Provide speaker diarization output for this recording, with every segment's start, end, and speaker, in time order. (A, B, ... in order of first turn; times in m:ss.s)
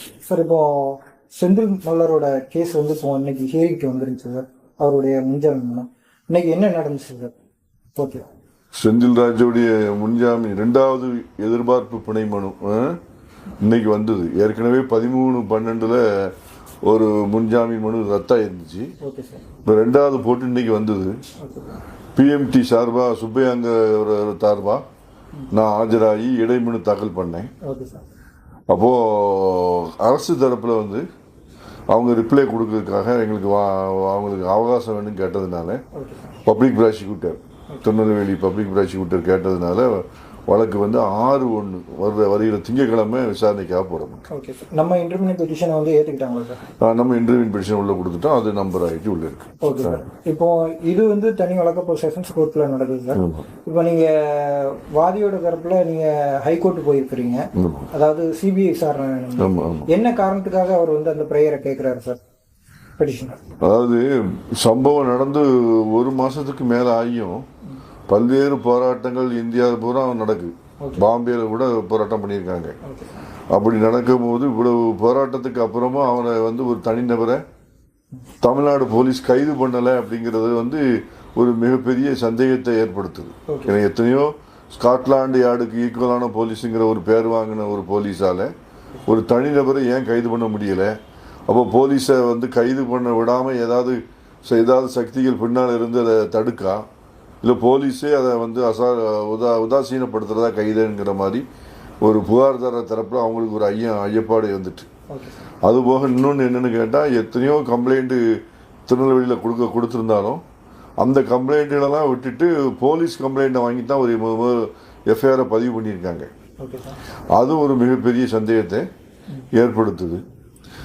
0:00.2-0:07.3 A
0:08.0-0:08.2 A
0:08.7-0:13.0 B
0:13.6-0:16.3 B
0:16.8-0:18.9 B
0:19.0-0:19.4 A
0:19.6-0:21.2 B
0:21.4-0:21.8 A
0:22.2-0:24.8 B
0:25.5-0:27.5 B
0:27.6-0:28.0 A
0:28.7-0:31.0 B
0:31.9-0:35.8 B
0:35.9-0:36.4 A
0:36.4-0:44.2 B
0:44.3-0:46.6 A
0:46.8-0:50.0 B
0:49.6-1:02.2 A
0:53.1-0:53.4 B
0:57.6-0:57.9 B
0:59.4-0:59.9 B
1:03.0-1:03.4 A
1:03.6-1:07.4 B
1:08.1-1:12.8 B
1:12.8-1:13.1 A
1:13.5-1:17.4 B
1:18.4-1:28.5 B
1:23.5-1:23.7 A
1:29.0-1:30.9 B
1:31.5-1:36.8 B
1:37.4-1:41.4 B
1:42.0-1:44.9 B
1:45.1-1:45.4 A
1:45.6-1:50.4 B
1:51.0-1:56.3 B
1:56.6-1:57.0 A
1:57.3-1:58.9 B
1:59.5-2:00.2 B